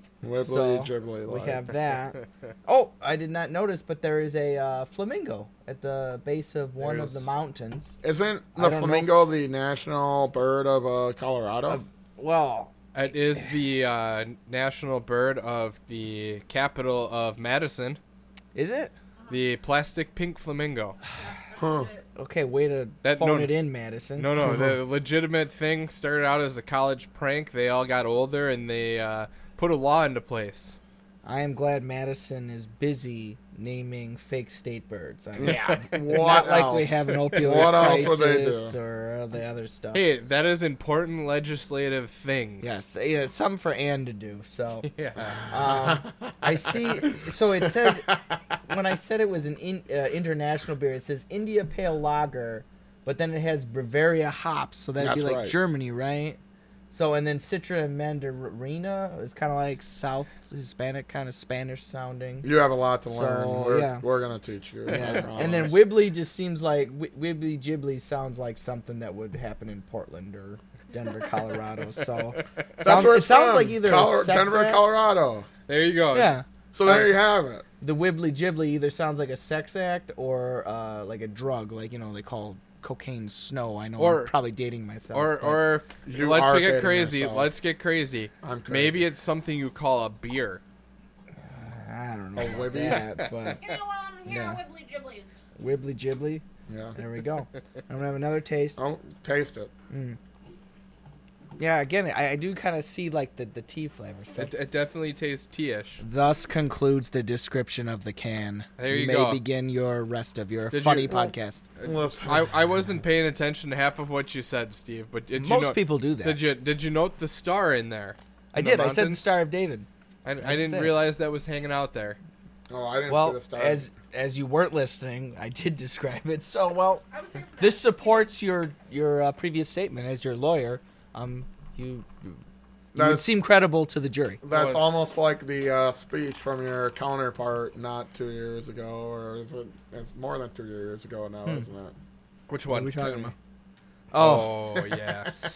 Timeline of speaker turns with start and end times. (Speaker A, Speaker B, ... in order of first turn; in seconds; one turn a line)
Speaker A: 0.2-1.7
Speaker B: 0.4-8.0
Speaker C: 6.8-7.2
Speaker A: 8.0-11.8
Speaker B: 8.6-9.2
Speaker B: 11.7-13.5
Speaker C: 12.9-18.0
Speaker B: 18.6-18.9
Speaker D: 19.2-19.4
Speaker C: 19.3-21.0
Speaker D: 21.2-22.1
Speaker A: 21.6-21.9
Speaker B: 22.2-24.6
Speaker C: 23.0-23.5
Speaker C: 24.2-30.8
Speaker B: 31.2-40.0
Speaker A: 35.4-38.8
Speaker C: 35.4-36.5
Speaker C: 37.1-38.0
Speaker C: 39.9-42.8
Speaker B: 42.6-44.9
Speaker C: 44.8-45.5
Speaker A: 45.2-48.6
Speaker B: 45.5-48.1
Speaker B: 48.7-56.4
Speaker A: 55.0-55.5
Speaker B: 56.9-62.5
Speaker A: 62.4-65.8
Speaker B: 63.1-64.0
Speaker B: 64.9-74.9
Speaker A: 72.8-75.5
Speaker C: 75.7-76.3
Speaker B: 76.1-77.2
Speaker A: 76.7-77.7
Speaker B: 77.8-85.6
Speaker C: 84.0-84.3
Speaker C: 85.1-90.6
Speaker A: 86.0-87.5
Speaker A: 88.4-89.1
Speaker B: 91.4-93.6
Speaker A: 92.4-93.1
Speaker C: 92.9-93.7
Speaker D: 93.6-95.4
Speaker B: 94.2-94.6
Speaker B: 95.6-96.4
Speaker A: 96.7-97.0
Speaker B: 97.0-98.8
Speaker A: 98.8-99.7
Speaker B: 99.9-100.2
Speaker B: 101.6-104.5
Speaker C: 104.4-106.0
Speaker B: 106.0-111.7
Speaker C: 108.8-109.4
Speaker C: 110.7-119.3
Speaker A: 111.8-112.5
Speaker B: 115.4-116.4
Speaker B: 118.5-119.9
Speaker C: 120.2-122.2
Speaker B: 120.4-121.0
Speaker A: 122.7-123.9
Speaker B: 123.1-127.0
Speaker D: 127.1-128.3
Speaker B: 127.6-132.4
Speaker A: 132.9-133.3
Speaker B: 132.9-134.4
Speaker A: 134.4-141.9
Speaker C: 134.5-134.8
Speaker C: 142.5-143.2
Speaker B: 142.7-143.3
Speaker B: 144.1-144.5
Speaker C: 144.2-145.3